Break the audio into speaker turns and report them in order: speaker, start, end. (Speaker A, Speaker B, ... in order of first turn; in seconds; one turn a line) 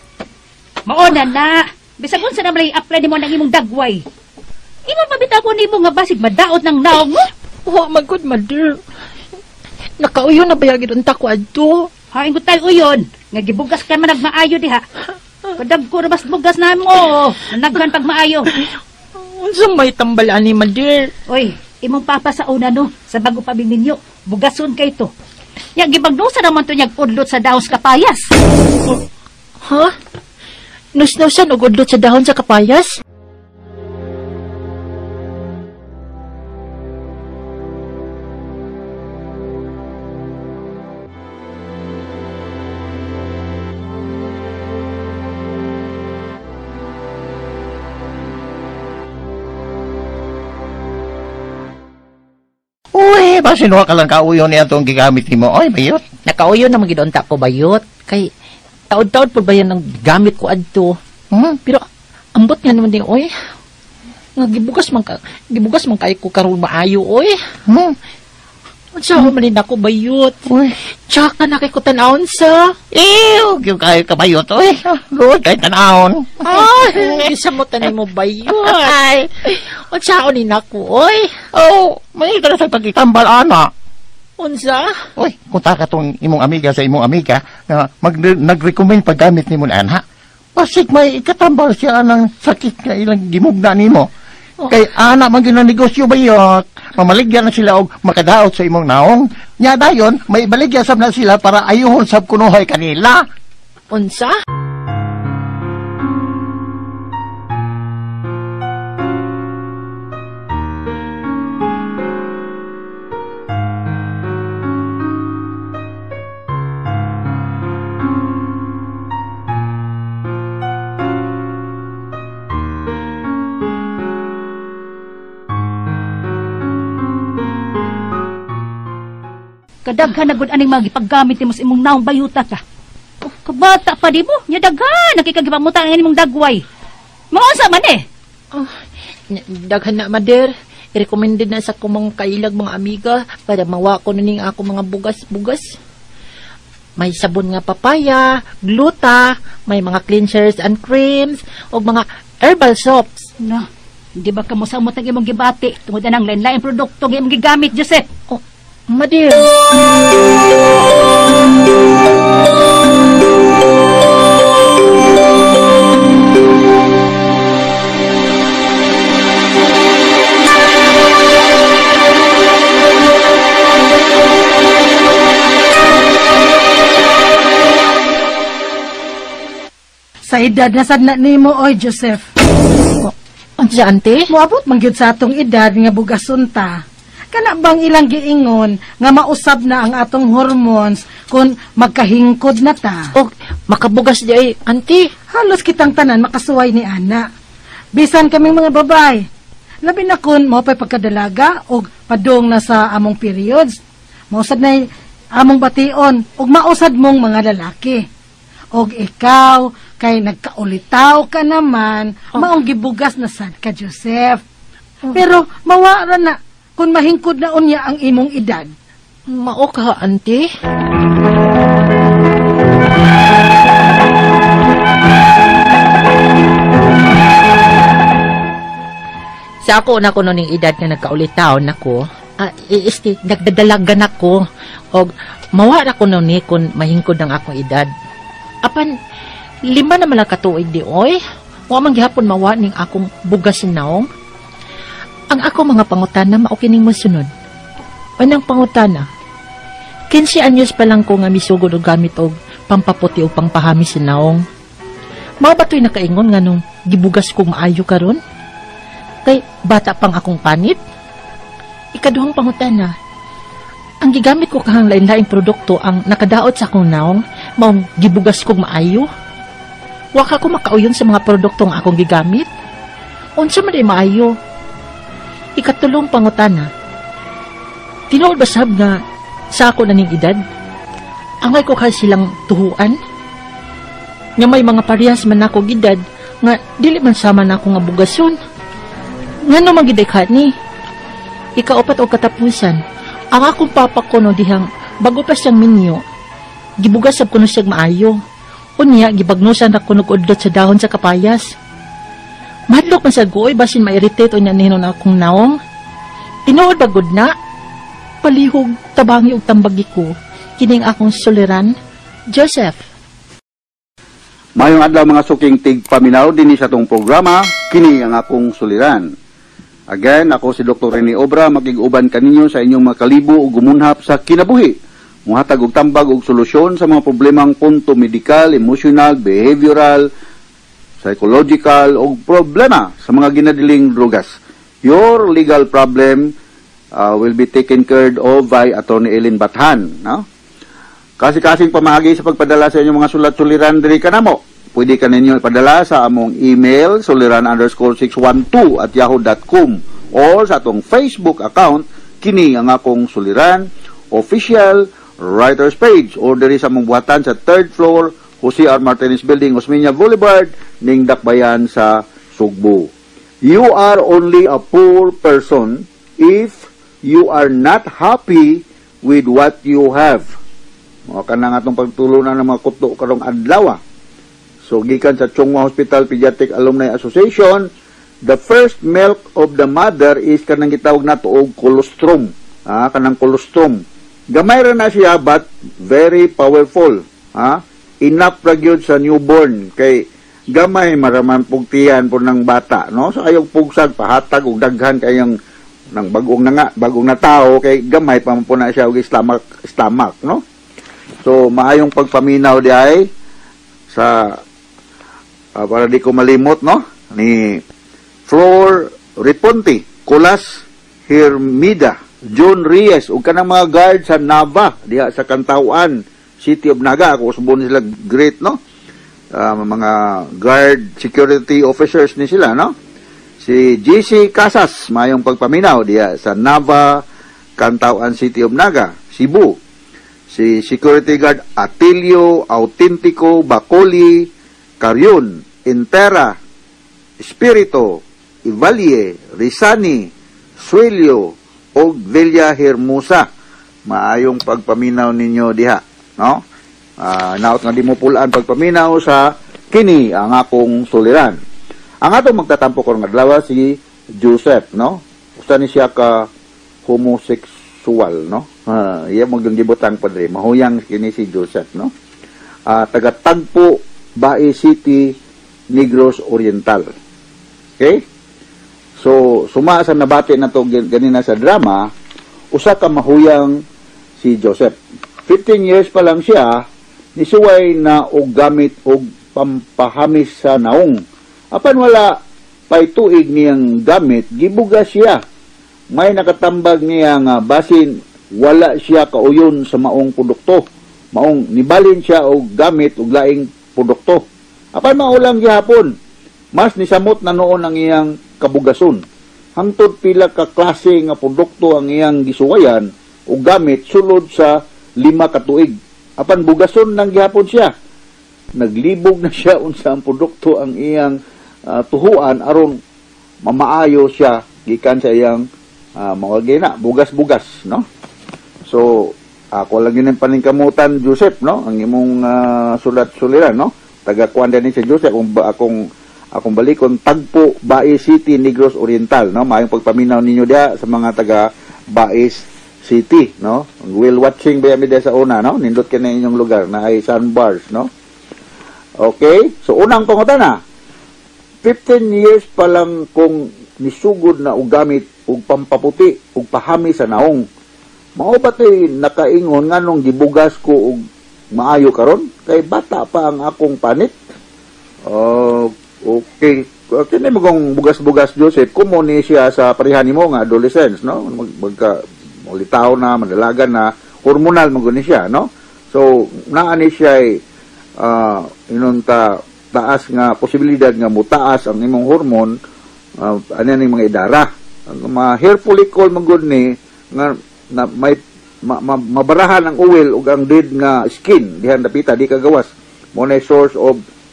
Speaker A: 0.9-4.0
Speaker A: 4.9-7.3
Speaker B: 7.7-8.8
Speaker B: 10.0-11.9
Speaker A: 12.1-14.8
Speaker A: 15.6-18.5
Speaker B: 19.2-21.1
Speaker A: 21.3-25.1
Speaker A: 25.8-28.2
Speaker B: 29.6-29.9
Speaker B: 30.9-33.0
Speaker C: 52.9-56.0
Speaker B: 56.3-58.3
Speaker B: 58.9-61.0
Speaker B: 62.4-63.3
Speaker B: 64.4-67.3
Speaker C: 67.7-67.9
Speaker B: 69.0-70.4
Speaker C: 70.5-70.8
Speaker B: 71.1-72.8
Speaker C: 72.9-77.2
Speaker B: 76.4-81.4
Speaker C: 78.5-79.3
Speaker C: 81.5-83.7
Speaker B: 84.4-85.0
Speaker C: 85.2-90.0
Speaker C: 90.5-94.1
Speaker C: 94.7-103.2
Speaker B: 103.9-104.4
Speaker A: 129.8-132.6
Speaker A: 133.4-136.6
Speaker A: 137.3-138.0
Speaker B: 139.3-145.8
Speaker B: 147.0-153.3
Speaker A: 153.4-153.7
Speaker A: 154.2-158.0
Speaker B: 158.3-159.5
Speaker D: 180.3-182.2
Speaker B: 183.0-184.3
Speaker D: 184.3-186.8
Speaker D: 187.3-193.1
Speaker B: 193.2-195.1
Speaker D: 195.3-197.2
Speaker D: 197.9-199.2
Speaker D: 199.8-203.8
Speaker D: 204.3-204.8
Speaker D: 205.4-208.0
Speaker D: 208.7-214.4
Speaker D: 215.1-218.7
Speaker B: 219.3-220.4
Speaker B: 229.6-237.9
Speaker B: 239.7-241.2
Speaker B: 241.7-244.1
Speaker B: 245.3-247.3
Speaker B: 248.2-249.1
Speaker B: 250.1-254.4
Speaker B: 255.4-258.2
Speaker B: 259.2-260.8
Speaker B: 261.9-262.9
Speaker B: 264.0-269.1
Speaker B: 270.1-272.5
Speaker B: 273.4-274.3
Speaker B: 275.6-276.7
Speaker B: 278.1-279.0
Speaker B: 279.5-280.4
Speaker B: 281.4-283.0
Speaker B: 284.4-288.4
Speaker B: 289.5-290.5
Speaker B: 291.6-292.8
Speaker B: 293.3-296.0
Speaker B: 296.8-298.2
Speaker B: 298.8-301.5
Speaker B: 302.7-305.6
Speaker B: 306.4-307.3
Speaker B: 308.2-311.7
Speaker B: 312.3-312.8
Speaker E: 314.6-319.1
Speaker E: 319.9-324.7
Speaker E: 325.3-330.1
Speaker E: 331.0-334.3
Speaker E: 334.8-336.3
Speaker E: 336.9-340.2
Speaker E: 341.2-362.9
Speaker E: 363.4-370.2
Speaker E: 371.1-373.8
Speaker E: 374.6-377.6
Speaker E: 378.2-383.8
Speaker E: 384.3-390.0
Speaker E: 390.5-395.3
Speaker E: 395.9-400.4
Speaker E: 401.2-403.1
Speaker E: 403.9-404.3
Speaker E: 405.6-407.6
Speaker E: 408.3-418.6
Speaker E: 419.3-422.7
Speaker E: 423.4-427.0
Speaker E: 427.6-429.5
Speaker E: 430.3-434.3
Speaker E: 434.8-436.3
Speaker E: 437.2-440.1
Speaker E: 440.6-443.2
Speaker E: 443.9-446.4
Speaker E: 447.0-451.4
Speaker E: 452.0-456.3
Speaker E: 456.9-461.9
Speaker E: 462.7-465.1
Speaker E: 465.7-466.9
Speaker E: 469.0-471.9
Speaker E: 472.5-473.6
Speaker E: 474.2-474.8
Speaker E: 475.3-476.6
Speaker E: 477.2-481.0
Speaker E: 481.5-482.2
Speaker E: 482.7-485.2
Speaker E: 485.9-490.6
Speaker E: 491.1-494.2
Speaker E: 494.7-495.9
Speaker E: 496.6-499.0
Speaker E: 499.6-507.7
Speaker E: 508.6-511.1
Speaker E: 511.7-512.8
Speaker E: 513.4-515.4
Speaker E: 516.0-517.8
Speaker E: 518.7-537.9
Speaker E: 539.0-540.5
Speaker E: 541.6-547.4
Speaker E: 548.2-551.0
Speaker E: 551.5-554.1
Speaker E: 555.1-562.0
Speaker E: 562.5-567.4
Speaker E: 568.0-572.5
Speaker E: 573.2-584.0